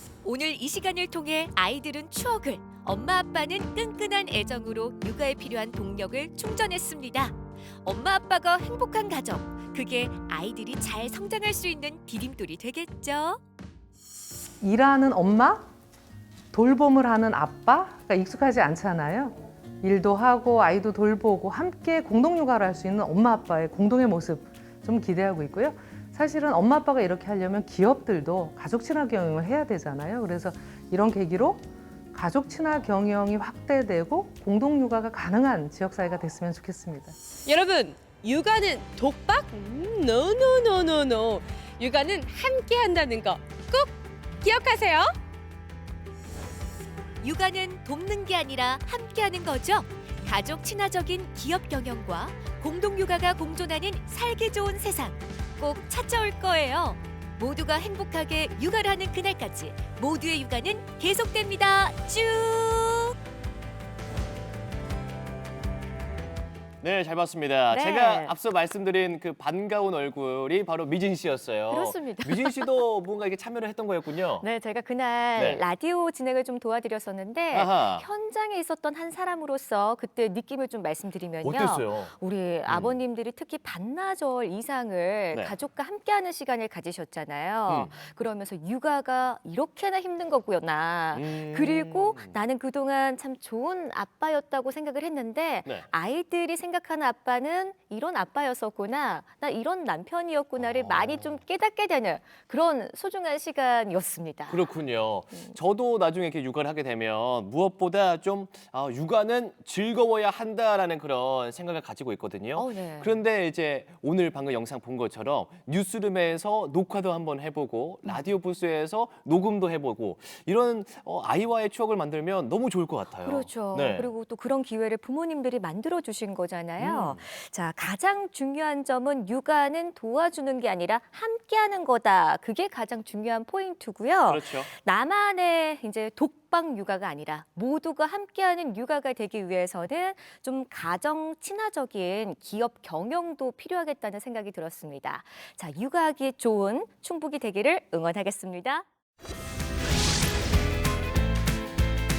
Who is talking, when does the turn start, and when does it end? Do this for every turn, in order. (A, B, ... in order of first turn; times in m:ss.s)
0:00.2-0:13.4 A
0:14.6-0:15.6 B
0:16.5-0:31.6 B
0:32.1-0:37.2 B
0:37.4-0:45.2 C
0:47.2-1:03.2 A
1:06.8-1:14.5 D
1:07.7-1:08.3 E
1:11.7-1:12.8 E
1:14.4-1:44.7 E
1:15.4-1:15.6 D
1:17.5-1:18.0 D
1:21.4-1:22.2 D
1:22.7-1:23.0 D
1:27.7-1:28.0 D
1:31.1-1:32.4 D
1:40.6-1:41.4 D
1:44.5-2:04.1 D
1:45.3-1:45.6 E
1:52.5-1:53.2 E
2:03.2-2:28.8 E
2:06.8-2:07.3 D
2:14.3-2:14.7 D